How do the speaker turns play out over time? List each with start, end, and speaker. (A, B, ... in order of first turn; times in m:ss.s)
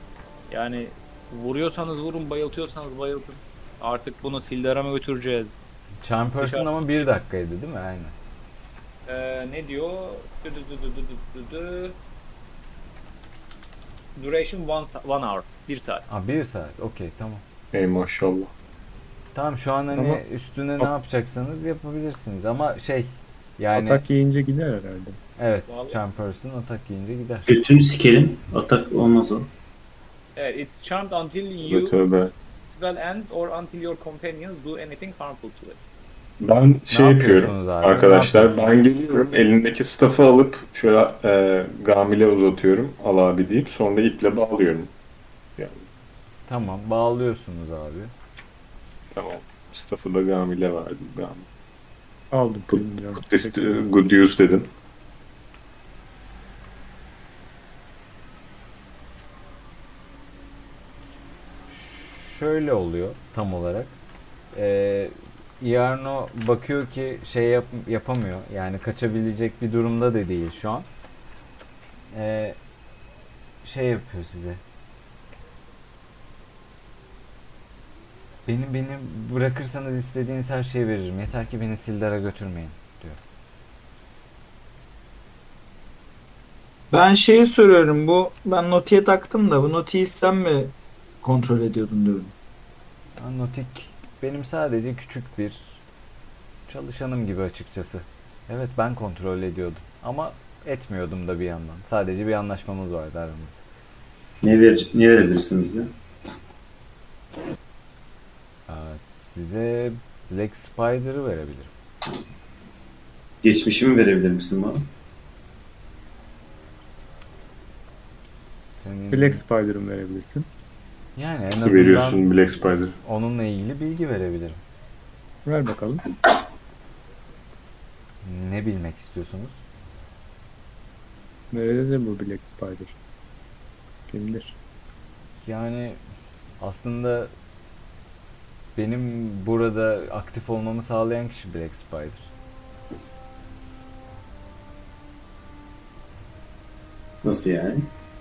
0:00.5-0:05.6 A
0:06.0-0:08.1 B
0:06.4-0:06.7 A
0:09.1-0:12.0 A
0:14.2-0:16.0 A
0:16.1-0:17.4 B
0:17.7-0:18.5 C
0:19.3-0:24.0 B
0:19.9-0:20.2 D
0:23.7-0:25.2 D
0:25.4-0:27.5 B
0:25.7-0:26.0 A
0:27.5-0:29.5 E
0:30.4-0:32.0 A
0:31.6-0:32.3 C
0:32.7-0:35.8 A
0:36.4-0:44.9 C
0:36.9-0:38.7 B
0:45.6-0:45.8 C
0:46.5-0:48.1 B
0:49.1-0:51.4 C
0:52.3-0:53.9 D
0:52.7-0:54.7 C
1:01.7-1:03.9 B
1:04.5-1:10.9 B
1:12.1-1:12.6 B
1:13.6-1:14.6 B
1:18.4-1:23.2 B
1:26.9-1:32.3 F
1:33.2-1:35.8 B
1:36.7-1:43.6 B
1:44.4-1:45.9 E
1:48.7-1:51.7 B
1:53.4-1:54.8 E
1:58.3-1:59.4 B
1:59.1-2:00.5 D
2:01.2-2:02.2 B
2:01.5-2:03.0 C
2:03.0-2:04.6 B
2:05.4-2:06.0 D
2:08.2-2:09.6 B
2:11.5-2:12.9 D
2:14.1-2:14.6 D
2:15.4-2:16.0 B
2:16.6-2:17.3 B
2:18.8-2:22.3 B
2:27.2-2:27.9 E